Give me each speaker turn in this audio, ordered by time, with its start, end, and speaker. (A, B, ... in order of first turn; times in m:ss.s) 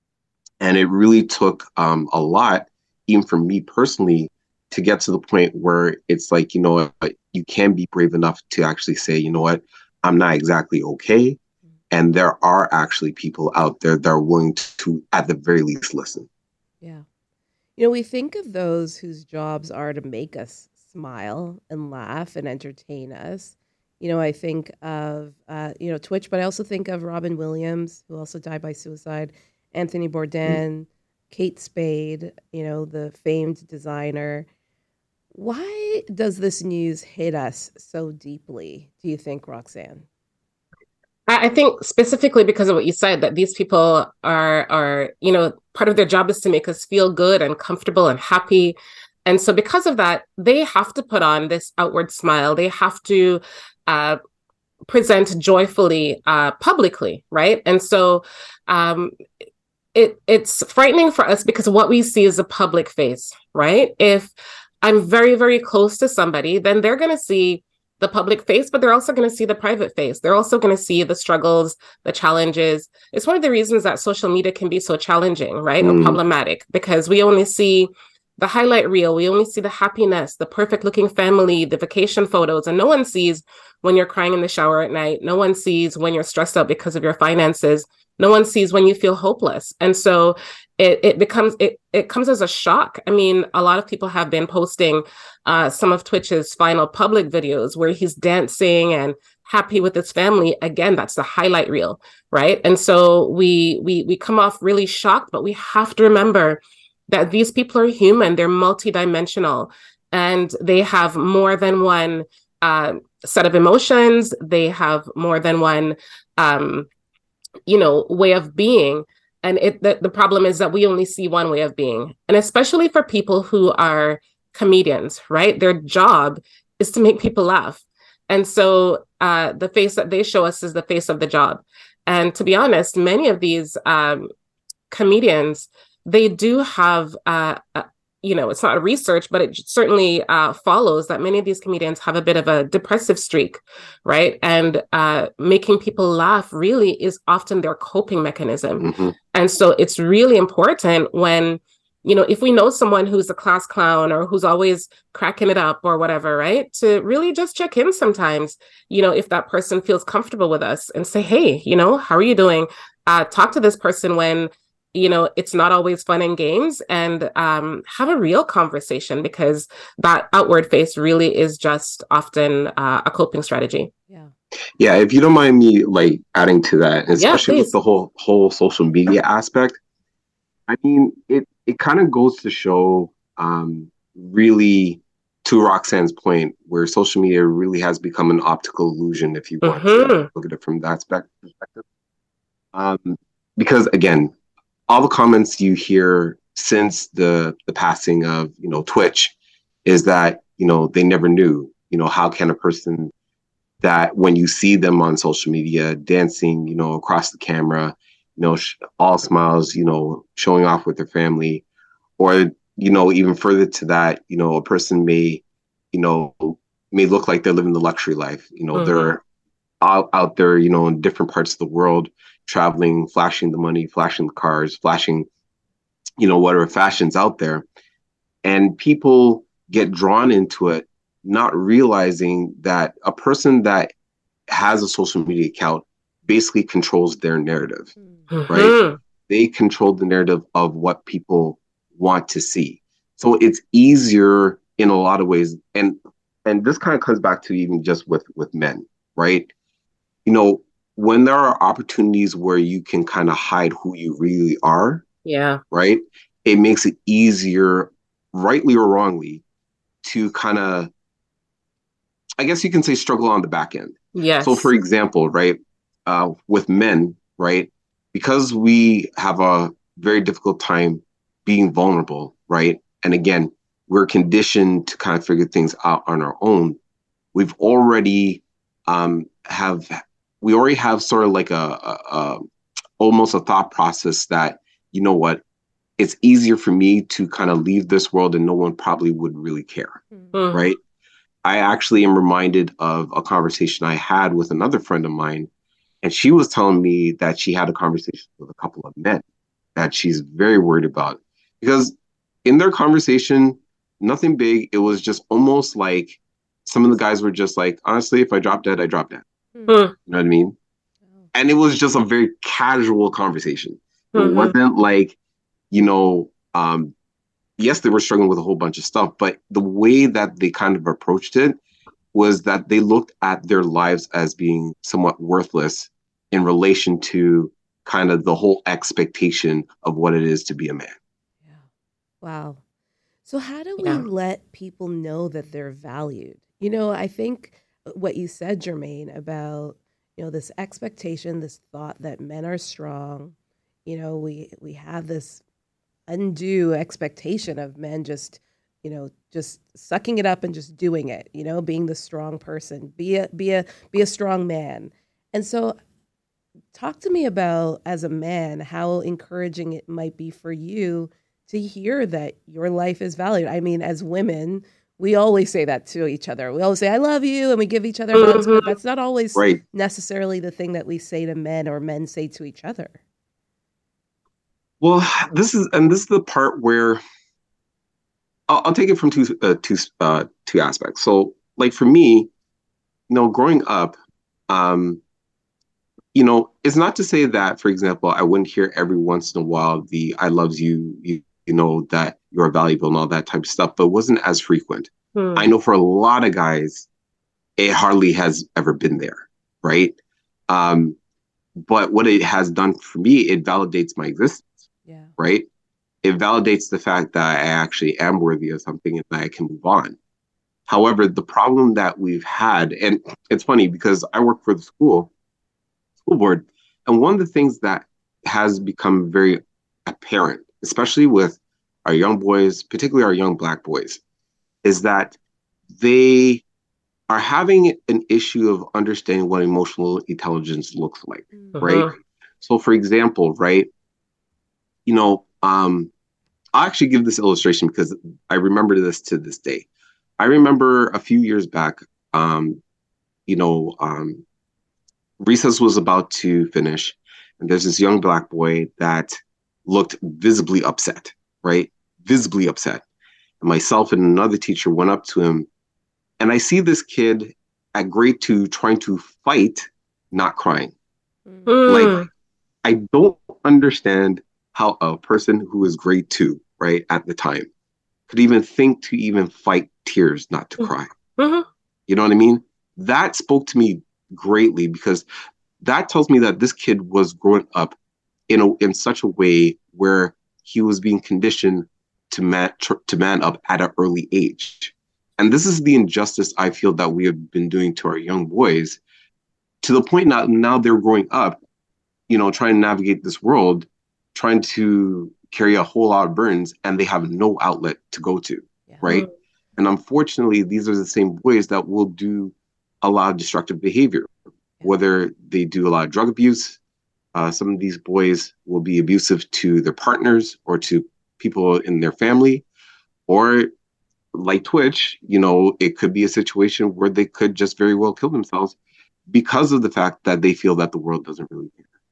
0:00.6-0:11.4 A
0:11.9-0:16.3 A
0:17.8-0:34.5 B
0:35.3-0:40.1 B
0:41.3-0:54.2 C
0:54.9-0:59.1 C
1:00.0-1:56.9 C
1:15.8-1:16.2 A
1:57.7-2:14.3 C
2:14.9-2:53.9 C
2:28.8-2:29.2 A
2:54.8-2:59.8 A
2:57.2-2:57.7 C
3:00.7-3:11.8 A
3:09.6-3:10.3 C
3:12.7-3:14.3 A
3:14.9-3:19.3 A
3:19.8-3:23.1 A
3:23.8-3:31.6 A
3:32.2-3:39.2 A
3:38.7-3:39.1 C
3:39.8-3:45.3 A
3:46.2-3:47.7 A
3:48.4-3:53.9 A
3:54.5-3:57.9 A
3:58.3-3:59.0 C
3:58.5-3:58.8 A
3:59.3-4:09.5 A
4:10.2-4:15.0 A
4:15.2-4:15.6 C
4:15.7-4:19.4 A
4:20.0-4:20.9 A
4:22.4-4:36.8 A
4:24.2-4:24.7 C
4:37.3-4:42.5 A
4:43.0-4:45.4 A
4:46.0-4:50.0 A
4:50.3-4:50.8 C
4:50.5-4:50.8 A
4:51.4-4:55.5 A
4:56.0-4:59.2 A
4:59.8-5:09.2 A
5:09.7-5:10.0 C
5:10.1-5:10.6 A
5:11.3-5:15.2 A
5:14.1-5:14.6 C
5:15.7-5:16.9 A
5:17.6-5:21.6 A
5:22.1-5:31.0 A
5:32.2-5:32.6 B
5:33.3-5:43.3 B
5:33.8-5:34.0 C
5:43.9-5:45.4 B
5:46.1-5:55.8 B
5:56.7-6:13.0 B
6:08.1-6:08.8 C
6:09.4-6:09.6 A
6:14.8-6:17.0 A
6:18.5-6:22.3 A
6:23.1-6:24.0 A
6:24.5-6:25.0 A
6:26.1-6:36.9 A
6:35.2-6:35.5 C
6:37.6-6:40.0 A
6:40.5-6:41.0 A
6:41.6-6:44.5 A
6:44.9-6:45.1 B
6:45.2-6:45.5 A
6:46.0-6:50.0 A
6:50.7-6:55.1 A
6:56.0-7:04.0 A
7:04.6-7:05.2 A
7:05.8-7:06.4 A
7:07.1-7:13.7 A
7:11.6-7:11.9 C
7:14.9-7:15.9 A
7:16.5-7:19.7 A
7:20.2-7:22.6 A
7:23.3-7:24.2 A
7:25.2-7:29.2 A
7:29.7-7:32.8 A
7:33.4-7:35.5 A
7:36.2-7:40.7 A
7:41.3-7:41.6 B
7:41.5-7:42.1 C
7:41.7-7:42.0 A
7:42.6-7:47.5 A
7:48.1-7:51.0 A
7:50.6-7:51.5 C
7:51.9-7:55.0 A
7:55.6-7:57.8 A
7:58.3-8:08.8 A
8:09.6-8:11.4 A
8:12.1-8:24.1 A
8:24.6-8:26.6 A
8:27.1-8:32.4 A
8:33.1-8:33.5 A
8:34.1-8:38.6 A
8:39.1-8:41.6 A